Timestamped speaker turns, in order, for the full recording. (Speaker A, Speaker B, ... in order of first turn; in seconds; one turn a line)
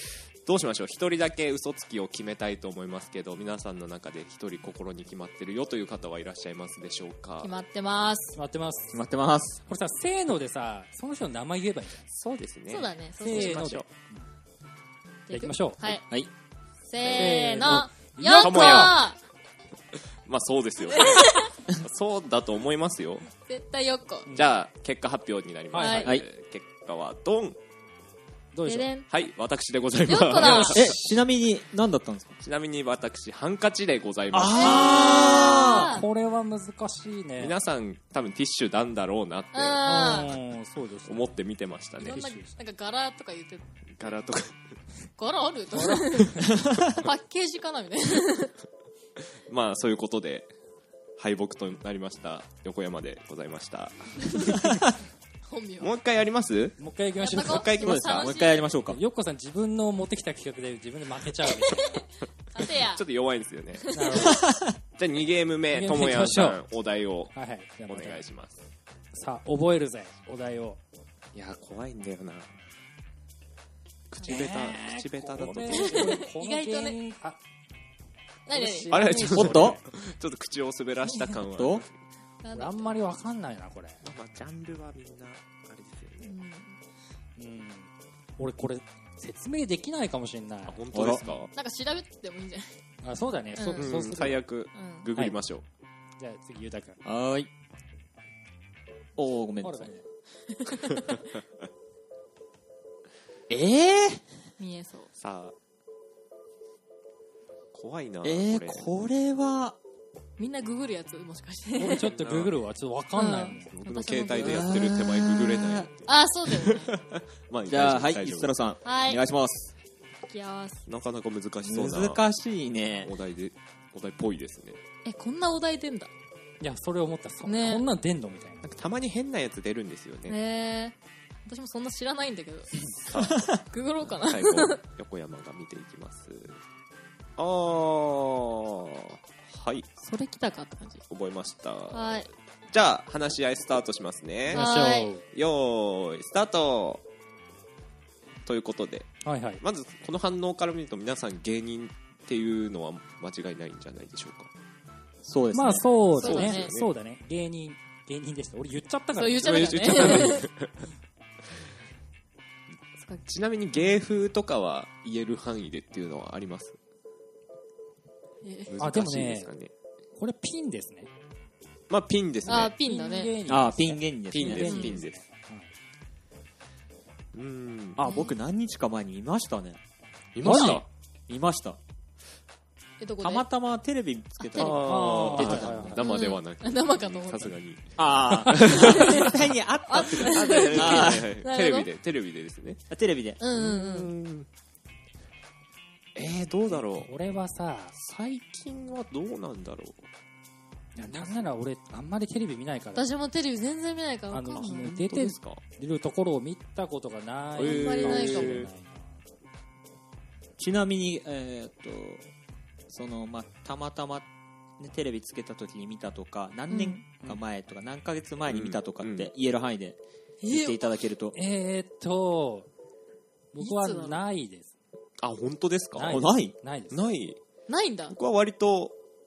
Speaker A: 0.4-7.5
Speaker B: 7.4-8.4
Speaker C: 8.3-9.0
Speaker D: 8.9-9.6
Speaker C: 9.7-12.1
Speaker A: 12.1-13.9
Speaker B: 12.7-13.7
Speaker C: 13.2-14.2
Speaker B: 15.3-16.0
Speaker C: 15.3-15.8
Speaker D: 15.8-16.3
Speaker B: 16.9-19.2
Speaker A: 17.0-17.7
Speaker C: 17.1-19.0
Speaker A: 18.3-19.1
Speaker A: 20.2-23.3
Speaker B: 20.9-21.5
Speaker B: 23.4-24.3
Speaker C: 24.3-24.5
Speaker A: 24.3-27.6
Speaker C: 25.7-26.1
Speaker B: 25.7-26.1
Speaker C: 28.5-28.9
Speaker B: 28.6-29.1
Speaker A: 29.1-31.2
Speaker B: 30.0-30.9
Speaker C: 30.3-30.9
Speaker D: 30.7-32.4
Speaker A: 32.4-35.3
Speaker D: 34.3-36.0
Speaker B: 34.5-36.0
Speaker C: 35.4-37.5
Speaker A: 37.4-40.2
Speaker B: 39.5-40.3
Speaker C: 39.8-41.3
Speaker A: 41.0-42.2
Speaker B: 42.0-44.2
Speaker C: 42.0-42.5
Speaker A: 44.0-44.6
Speaker B: 45.2-48.5
Speaker C: 45.7-46.5
Speaker D: 46.6-46.9
Speaker A: 49.5-50.5
Speaker A: 51.2-54.8
Speaker B: 55.5-55.9
Speaker A: 55.8-56.8
Speaker C: 56.8-57.7
Speaker B: 57.2-58.7
Speaker A: 57.3-58.3
Speaker D: 57.8-59.0
Speaker C: 58.9-62.0
Speaker B: 61.7-63.0
Speaker A: 62.8-63.9
Speaker B: 63.8-64.3
Speaker C: 63.9-64.4
Speaker D: 64.2-64.7
Speaker A: 65.0-67.3
Speaker C: 65.7-66.6
Speaker C: 67.3-68.2
Speaker A: 67.9-68.6
Speaker C: 69.1-70.8
Speaker A: 71.3-72.5
Speaker A: 74.1-76.2
Speaker C: 74.2-77.4
Speaker B: 75.7-77.0
Speaker B: 78.5-79.2
Speaker C: 78.5-79.8
Speaker A: 78.9-81.9
Speaker D: 79.3-79.8
Speaker B: 81.1-81.4
Speaker D: 81.5-81.8
Speaker B: 82.4-83.0
Speaker C: 82.5-84.0
Speaker A: 84.0-86.3
Speaker B: 86.2-86.8
Speaker C: 87.4-91.2
Speaker A: 90.7-91.5
Speaker D: 90.9-91.3
Speaker B: 91.5-92.8
Speaker C: 93.0-94.4
Speaker B: 93.6-94.0
Speaker A: 93.8-95.6
Speaker B: 94.7-95.1
Speaker C: 96.2-97.0
Speaker D: 97.0-97.5
Speaker D: 99.2-99.9
Speaker C: 99.6-100.0
Speaker B: 100.5-101.2
Speaker D: 103.5-104.2
Speaker B: 104.6-105.1
Speaker A: 105.2-105.5
Speaker A: 107.7-108.9
Speaker D: 108.2-109.8
Speaker B: 110.4-112.1
Speaker C: 111.8-113.7
Speaker A: 112.0-112.6
Speaker B: 113.1-115.3
Speaker A: 113.7-118.6
Speaker D: 114.3-115.9
Speaker B: 116.0-116.9
Speaker D: 117.7-119.7
Speaker B: 118.8-119.2
Speaker B: 120.3-120.9
Speaker A: 120.9-122.2
Speaker D: 121.6-123.1
Speaker A: 123.0-124.8
Speaker B: 125.0-126.1
Speaker C: 126.6-128.6
Speaker B: 127.5-127.8
Speaker A: 128.6-130.4
Speaker B: 130.3-130.9
Speaker B: 131.4-132.8
Speaker A: 133.0-136.6
Speaker B: 133.7-134.8
Speaker A: 137.4-139.9
Speaker B: 140.0-141.0
Speaker A: 141.1-144.7
Speaker B: 141.9-142.3
Speaker C: 144.5-145.2
Speaker B: 144.5-145.1
Speaker A: 145.3-147.0
Speaker A: 148.4-154.5
Speaker C: 149.2-149.6
Speaker D: 155.2-155.9
Speaker C: 155.5-160.4
Speaker A: 156.1-156.9
Speaker B: 156.2-156.7
Speaker B: 159.1-160.5
Speaker A: 159.4-160.7
Speaker B: 163.0-163.2
Speaker A: 163.2-166.8
Speaker B: 168.4-168.7
Speaker A: 168.7-169.7
Speaker C: 168.8-169.5
Speaker C: 170.2-171.1
Speaker A: 171.9-172.7
Speaker B: 172.4-173.3
Speaker C: 172.8-175.7
Speaker D: 173.5-174.9
Speaker A: 174.3-175.2
Speaker B: 174.5-175.0
Speaker A: 177.3-178.0
Speaker D: 178.0-179.8
Speaker B: 178.0-178.4
Speaker A: 180.3-180.8
Speaker D: 180.4-181.8
Speaker C: 180.4-180.8
Speaker B: 183.0-183.5
Speaker D: 183.2-186.0
Speaker B: 184.4-184.8
Speaker A: 184.6-192.8
Speaker C: 184.7-186.0
Speaker B: 186.0-187.6
Speaker D: 188.0-191.3
Speaker B: 188.7-189.3
Speaker B: 189.9-191.9
Speaker D: 192.9-193.4
Speaker B: 193.4-194.1
Speaker A: 193.5-194.5
Speaker A: 196.1-197.1
Speaker C: 196.7-197.9
Speaker A: 197.9-200.0
Speaker C: 200.9-203.1
Speaker A: 201.0-201.5
Speaker B: 202.9-205.0
Speaker C: 204.3-209.2
Speaker A: 204.5-205.6
Speaker A: 207.6-208.7
Speaker B: 207.6-208.7
Speaker D: 210.6-212.3
Speaker D: 212.9-221.3
Speaker B: 216.7-217.0
Speaker A: 218.5-219.3
Speaker B: 220.4-220.8
Speaker C: 221.3-222.7
Speaker C: 223.5-224.7
Speaker B: 223.6-224.2
Speaker A: 225.2-226.3
Speaker C: 225.9-227.0
Speaker D: 226.1-226.5
Speaker A: 226.9-227.4
Speaker B: 227.7-228.2
Speaker A: 228.1-228.9